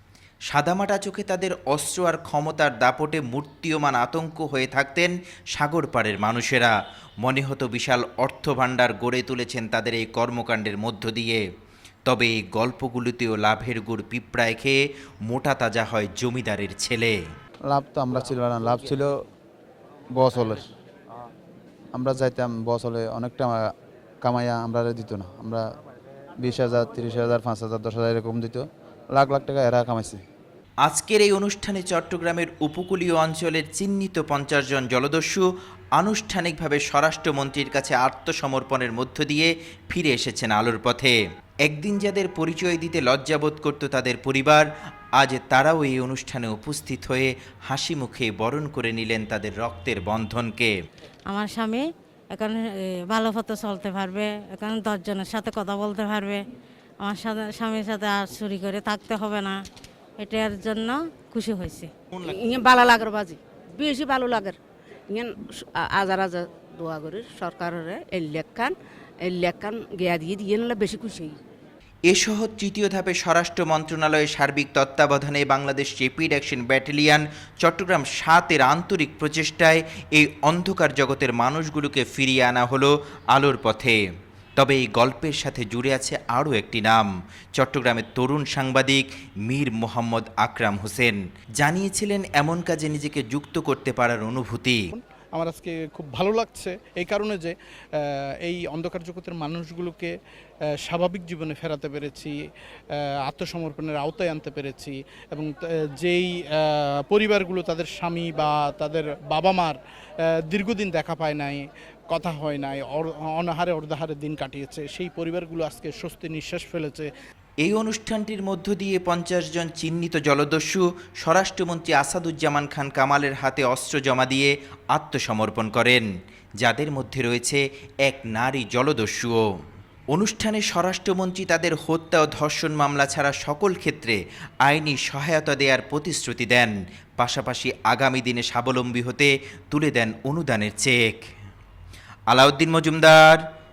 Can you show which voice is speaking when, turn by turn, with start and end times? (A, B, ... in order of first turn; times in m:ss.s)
0:00.5-0:11.4 A
0:12.1-0:17.2 A
0:17.7-0:19.2 B
0:20.2-0:20.7 B
0:22.0-0:23.6 B
0:24.2-0:25.6 B
0:26.4-0:28.6 B
0:29.2-0:30.2 B
0:30.9-0:35.5 A
0:36.0-0:41.2 A
0:41.7-0:50.7 A
0:51.3-0:56.4 C
0:57.0-0:59.6 C
1:00.2-1:01.9 C
1:02.2-1:04.6 D
1:05.1-1:08.7 D
1:09.2-1:11.4 D
1:12.1-1:24.0 A
1:24.6-1:34.8 A
1:34.9-1:40.1 E
1:40.9-1:42.4 E
1:43.3-1:49.8 E
1:50.5-1:57.1 E
1:57.6-2:06.1 A
2:06.6-2:09.4 A
2:10.1-2:21.2 A
2:22.3-2:23.4 A